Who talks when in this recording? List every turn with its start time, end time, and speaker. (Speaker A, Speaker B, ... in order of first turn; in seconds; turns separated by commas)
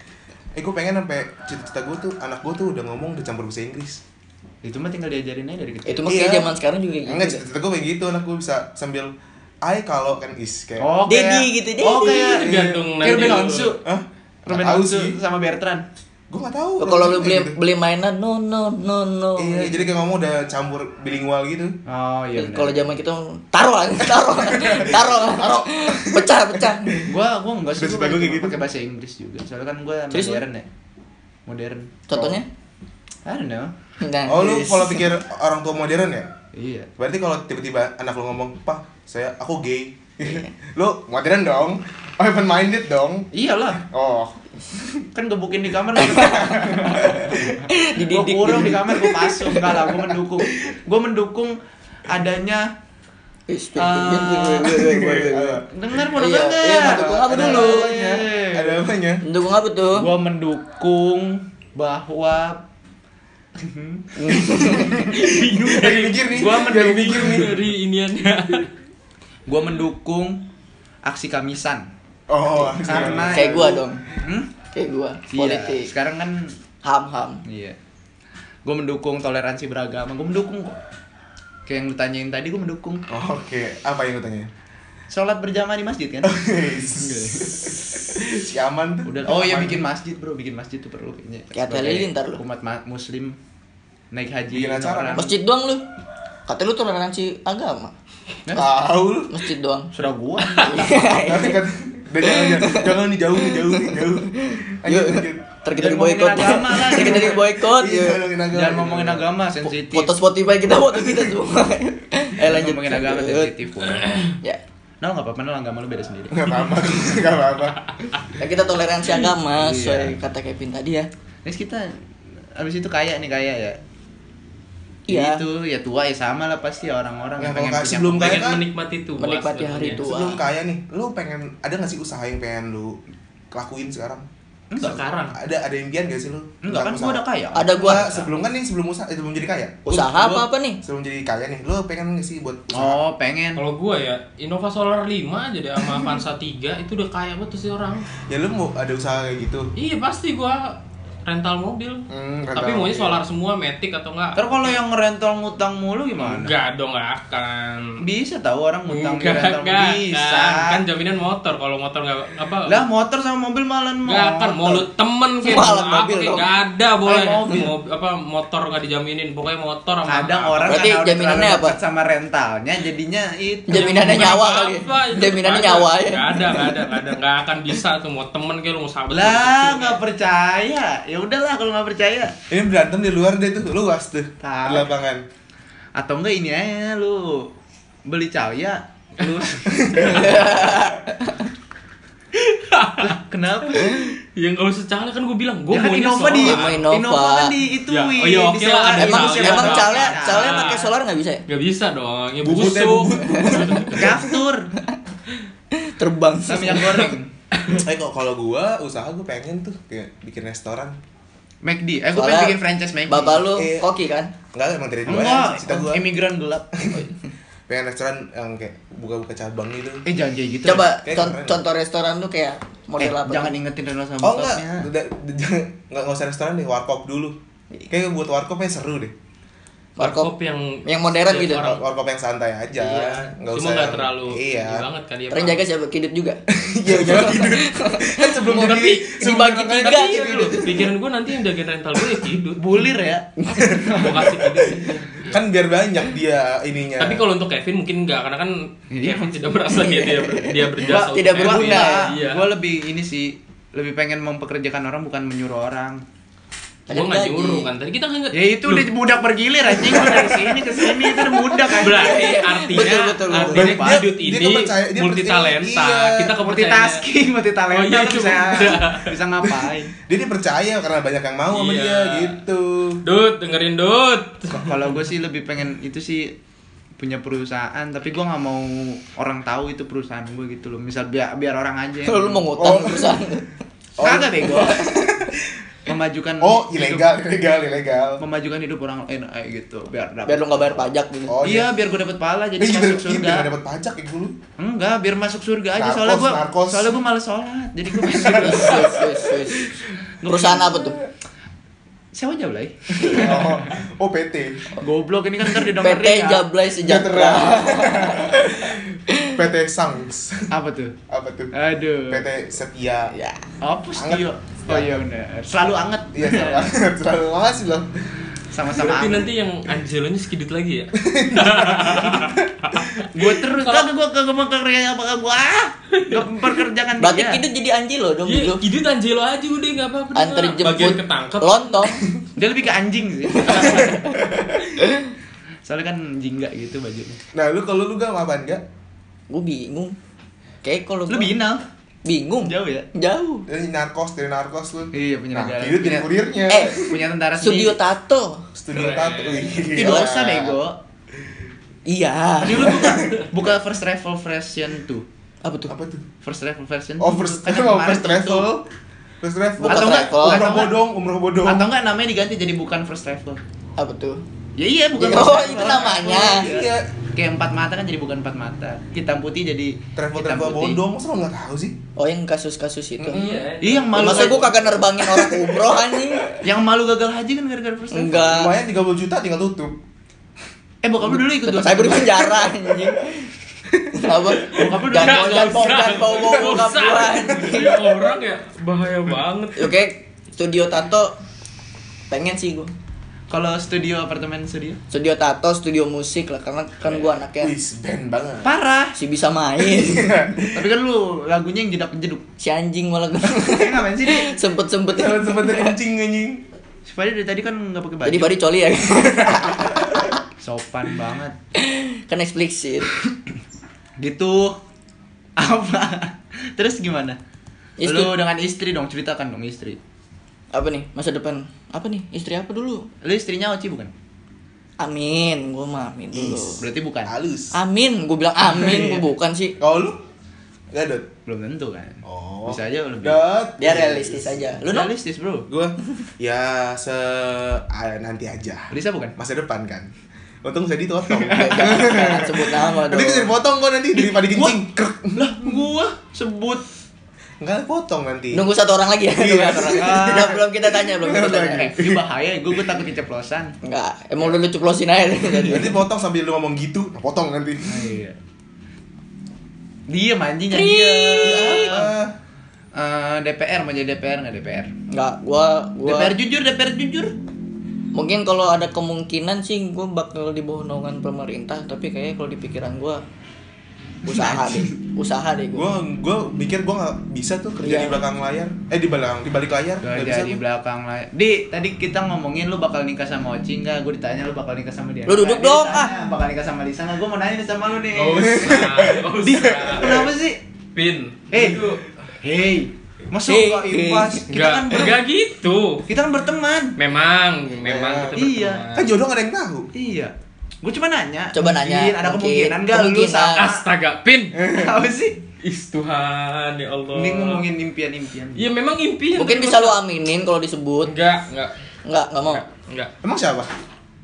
Speaker A: 0.6-4.0, Speaker B: 4.6-6.1, Speaker C: 5.9-7.4, Speaker A: 6.0-6.5, Speaker A: 7.0-10.9, Speaker B: 10.8-13.8, Speaker C: 11.1-12.4, Speaker D: 12.1-13.8, Speaker A: 12.4-15.2, Speaker B: 14.5-15.8, Speaker A: 16.3-17.6, Speaker C: 16.8-19.9, Speaker A: 19.4-21.8, Speaker B: 21.9-22.9, Speaker C: 22.4-26.9, Speaker A: 24.0-27.1, Speaker B: 27.1-30.6, Speaker A: 27.8-28.6, Speaker C: 30.1-30.4, Speaker B: 31.4-32.0, Speaker C: 32.1-32.5, Speaker A: 32.1-32.4, Speaker B: 33.2-33.7, Speaker C: 34.0-35.1, Speaker A: 34.3-36.3, Speaker B: 36.5-36.9, Speaker A: 37.0-43.2, Speaker C: 40.2-40.5, Speaker B: 43.3-43.8, Speaker A: 43.8-45.0, Speaker B: 45.1-51.6, Speaker C: 46.0-46.9, Speaker A: 46.2-47.5, Speaker C: 47.7-49.8, Speaker A: 48.9-49.3, Speaker B: 52.1-52.7, Speaker C: 53.5-55.6, Speaker B: 53.8-54.8, Speaker A: 54.7-55.7, Speaker B: 55.7-58.8, Speaker C: 56.1-57.9, Speaker A: 56.7-59.2, Speaker C: 59.2-60.1, Speaker B: 59.9-62.6, Speaker B: 63.6-64.1, Speaker C: 64.2-65.0, Speaker A: 64.3-67.6, Speaker D: 64.4-68.7, Speaker B: 66.3-67.5, Speaker B: 69.5-70.4, Speaker B: 71.0-71.9, Speaker A: 72.3-73.8, Speaker C: 72.6-74.0, Speaker B: 72.8-74.5, Speaker C: 74.7-75.9, Speaker B: 75.3-76.5, Speaker C: 76.8-77.4, Speaker B: 77.4-77.8, Speaker B: 78.6-80.8, Speaker B: 81.7-83.0, Speaker A: 83.1-84.5, Speaker B: 85.1-88.0, Speaker A: 86.2-89.8, Speaker B: 89.0-93.4, Speaker C: 91.5-92.4, Speaker B: 94.1-95.4, Speaker A: 94.5-95.2, Speaker C: 95.1-95.8, Speaker C: 96.5-97.9, Speaker B: 98.4-98.8, Speaker A: 98.5-99.4, Speaker C: 99.3-99.9, Speaker B: 99.9-101.1, Speaker C: 100.6-101.6, Speaker A: 101.1-105.5, Speaker C: 102.2-108.2, Speaker B: 105.7-107.4, Speaker A: 106.4-109.3, Speaker B: 108.5-110.1, Speaker C: 109.7-113.5, Speaker B: 112.4-114.2, Speaker B: 115.0-116.5, Speaker A: 116.3-117.9, Speaker C: 118.4-121.1, Speaker B: 119.5-120.1, Speaker B: 121.4-121.9, Speaker B: 122.6-123.8, Speaker C: 125.1-125.5, Speaker B: 125.1-128.5, Speaker A: 127.4-128.6, Speaker D: 128.2-130.0, Speaker C: 129.2-130.4, Speaker A: 129.9-133.0, Speaker A: 133.5-134.2, Speaker B: 134.7-135.0, Speaker D: 134.8-135.3, Speaker A: 135.3-143.0, Speaker B: 136.6-138.2, Speaker C: 137.5-138.3, Speaker C: 139.9-140.8, Speaker B: 142.7-143.6, Speaker D: 143.6-148.1, Speaker A: 148.3-149.7, Speaker D: 149.8-154.8, Speaker A: 152.1-153.2, Speaker B: 154.4-156.5, Speaker D: 156.2-158.0, Speaker B: 158.0-160.8, Speaker D: 158.9-162.8, Speaker B: 162.7-164.9, Speaker D: 164.1-170.8, Speaker C: 165.4-166.5, Speaker B: 167.1-167.7, Speaker B: 170.1-174.4, Speaker C: 170.6-171.8, Speaker C: 173.7-177.0, Speaker D: 173.7-180.0, Speaker B: 179.1-182.4, Speaker A: 182.5-185.2, Speaker B: 184.4-184.9, Speaker B: 185.9-187.5, Speaker B: 188.1-190.3, Speaker A: 189.7-190.9, Speaker C: 190.0-191.5, Speaker D: 192.3-193.1, Speaker B: 193.0-194.0, Speaker D: 193.8-196.8, Speaker B: 195.7-200.9, Speaker C: 196.4-197.6, Speaker D: 197.9-200.8, Speaker C: 198.9-201.4, Speaker D: 201.5-204.0, Speaker A: 202.4-204.3, Speaker C: 203.2-203.8, Speaker B: 203.9-204.6, Speaker C: 205.7-207.1, Speaker B: 206.5-207.3, Speaker A: 207.7-210.9, Speaker B: 211.6-213.4, Speaker C: 212.1-214.3, Speaker A: 213.5-213.9, Speaker A: 214.5-216.0, Speaker B: 215.1-216.8, Speaker A: 216.8-217.1, Speaker A: 217.7-220.0, Speaker B: 220.1-220.9, Speaker C: 220.6-223.6, Speaker A: 221.0-221.6, Speaker B: 223.0-224.9, Speaker A: 224.2-227.4, Speaker A: 227.9-229.1, Speaker C: 230.0-230.3, Speaker D: 230.0-231.8, Speaker C: 230.8-231.8, Speaker A: 231.6-234.9, Speaker D: 232.9-235.6, Speaker C: 235.3-240.6, Speaker A: 236.5-240.9, Speaker D: 238.5-239.2, Speaker D: 239.7-242.6, Speaker B: 242.6-244.4, Speaker A: 243.5-244.7, Speaker D: 243.9-245.4, Speaker A: 245.2-247.3, Speaker D: 247.0-252.4, Speaker B: 248.9-249.3, Speaker C: 249.7-252.1, Speaker B: 250.8-256.0, Speaker C: 256.9-257.7, Speaker D: 256.9-258.9, Speaker B: 258.3-262.4, Speaker C: 261.7-263.8, Speaker D: 261.7-267.0, Speaker A: 263.5-266.3, Speaker B: 263.6-264.0, Speaker B: 266.4-269.9, Speaker D: 267.7-269.1, Speaker A: 269.4-273.0, Speaker D: 271.5-272.4, Speaker D: 273.0-274.9, Speaker B: 274.5-276.4, Speaker B: 277.0-282.5, Speaker C: 282.1-283.5, Speaker A: 282.6-283.1, Speaker A: 284.0-285.4, Speaker B: 284.0-284.8, Speaker C: 284.4-285.1, Speaker B: 285.9-287.1, Speaker A: 286.4-288.2, Speaker B: 288.2-290.9, Speaker C: 290.2-291.4, Speaker A: 291.3-291.7, Speaker B: 291.4-293.5, Speaker A: 292.6-294.4, Speaker B: 294.6-299.1, Speaker A: 295.7-297.0, Speaker A: 297.9-299.8, Speaker C: 298.3-301.0, Speaker B: 300.2-300.8, Speaker A: 300.7-301.1, Speaker B: 302.1-303.8, Speaker A: 303.0-304.8, Speaker B: 304.8-306.5, Speaker C: 305.8-309.3, Speaker A: 306.8-310.5, Speaker B: 310.5-310.9, Speaker A: 311.1-311.5, Speaker B: 311.5-312.2, Speaker A: 312.1-313.1, Speaker C: 313.1-313.4, Speaker B: 313.6-316.7, Speaker A: 313.9-314.9, Speaker A: 316.1-317.9, Speaker B: 318.5-319.3, Speaker D: 318.7-323.9, Speaker A: 321.0-323.1, Speaker B: 323.1-327.4, Speaker D: 325.9-326.3, Speaker C: 327.0-328.6, Speaker D: 328.2-331.9, Speaker C: 330.1-332.1, Speaker B: 332.4-334.0, Speaker C: 333.3-334.1, Speaker D: 333.4-333.9, Speaker A: 333.6-334.6, Speaker C: 334.8-335.1, Speaker B: 335.6-337.2, Speaker A: 337.3-338.6, Speaker C: 339.3-340.0, Speaker C: 340.6-341.3, Speaker B: 341.1-341.6, Speaker C: 342.1-343.5, Speaker B: 342.4-342.9, Speaker A: 343.5-347.0, Speaker B: 344.9-346.1, Speaker C: 346.5-348.5, Speaker B: 346.7-347.8, Speaker A: 348.6-350.6, Speaker D: 348.7-349.7, Speaker B: 349.7-350.8, Speaker C: 351.9-352.9, Speaker B: 352.4-355.1, Speaker A: 352.6-353.3, Speaker C: 355.4-355.7, Speaker A: 355.7-356.1, Speaker B: 356.2-358.5, Speaker A: 357.0-358.6, Speaker A: 359.2-361.7, Speaker C: 359.6-360.5, Speaker B: 359.6-360.8, Speaker B: 361.4-363.4, Speaker C: 363.8-364.2, Speaker B: 364.6-370.8, Speaker C: 364.9-366.5, Speaker A: 365.7-366.9, Speaker A: 369.9-371.8, Speaker C: 371.9-373.2, Speaker A: 373.0-375.6, Speaker D: 373.1-374.2, Speaker B: 373.6-374.6, Speaker C: 373.9-376.4, Speaker B: 376.4-378.3, Speaker C: 377.9-378.5, Speaker A: 378.1-379.8, Speaker B: 380.8-382.5, Speaker C: 381.1-383.3, Speaker C: 383.9-388.0, Speaker B: 384.5-385.8, Speaker D: 384.9-389.7, Speaker A: 386.1-387.7, Speaker C: 389.6-391.1, Speaker C: 392.1-392.7, Speaker B: 393.3-394.8, Speaker C: 394.9-397.5, Speaker A: 396.9-398.5, Speaker B: 398.4-399.0, Speaker C: 398.9-400.1, Speaker A: 399.6-400.6, Speaker B: 400.5-402.2, Speaker C: 402.4-405.8, Speaker B: 403.4-404.4, Speaker A: 404.9-406.4, Speaker B: 406.9-408.4, Speaker C: 408.0-409.7, Speaker A: 409.1-409.9, Speaker B: 410.4-411.4, Speaker C: 411.6-412.9, Speaker B: 414.0-414.6, Speaker B: 415.4-417.2, Speaker C: 417.8-418.1, Speaker B: 417.8-419.8, Speaker C: 420.5-422.9, Speaker B: 423.0-423.9, Speaker C: 424.8-426.6, Speaker A: 426.1-427.6, Speaker B: 426.6-427.1, Speaker C: 427.5-429.6, Speaker A: 428.5-429.1, Speaker A: 429.6-430.0, Speaker A: 430.7-431.1, Speaker B: 431.2-433.2, Speaker A: 432.1-434.6, Speaker C: 433.6-434.9, Speaker B: 434.6-435.5, Speaker A: 435.5-439.9, Speaker B: 438.7-439.1, Speaker A: 440.4-445.7, Speaker B: 441.2-441.7, Speaker C: 441.3-443.3, Speaker B: 443.9-444.6, Speaker B: 445.1-446.6, Speaker A: 447.4-448.5, Speaker C: 448.3-451.7, Speaker A: 449.1-452.0, Speaker B: 449.6-450.4, Speaker B: 451.2-453.6, Speaker C: 453.6-455.8, Speaker A: 455.4-457.9, Speaker B: 457.6-458.2, Speaker B: 459.9-461.9, Speaker C: 460.5-461.7, Speaker A: 461.2-462.1, Speaker B: 462.7-464.7, Speaker C: 464.9-466.1, Speaker B: 465.9-467.1, Speaker C: 467.9-473.0, Speaker C: 474.0-475.7, Speaker B: 474.1-474.7, Speaker A: 475.5-480.4, Speaker C: 477.6-478.0, Speaker B: 479.8-488.4, Speaker C: 485.1-486.1, Speaker D: 487.9-490.1, Speaker A: 488.1-490.1, Speaker B: 489.5-490.4, Speaker D: 490.7-491.8, Speaker B: 491.3-495.0, Speaker C: 493.2-494.2, Speaker D: 494.3-495.9, Speaker B: 495.9-496.8, Speaker D: 496.8-498.9, Speaker A: 497.6-499.7, Speaker B: 498.1-498.7, Speaker B: 499.7-503.6, Speaker C: 501.3-503.5, Speaker D: 503.4-504.4, Speaker A: 504.3-504.7, Speaker B: 504.4-505.2, Speaker D: 505.4-507.4, Speaker B: 506.9-508.4, Speaker D: 508.4-509.8, Speaker C: 509.1-510.9, Speaker D: 510.8-511.6, Speaker C: 511.9-512.4, Speaker D: 512.2-512.9, Speaker A: 513.0-513.5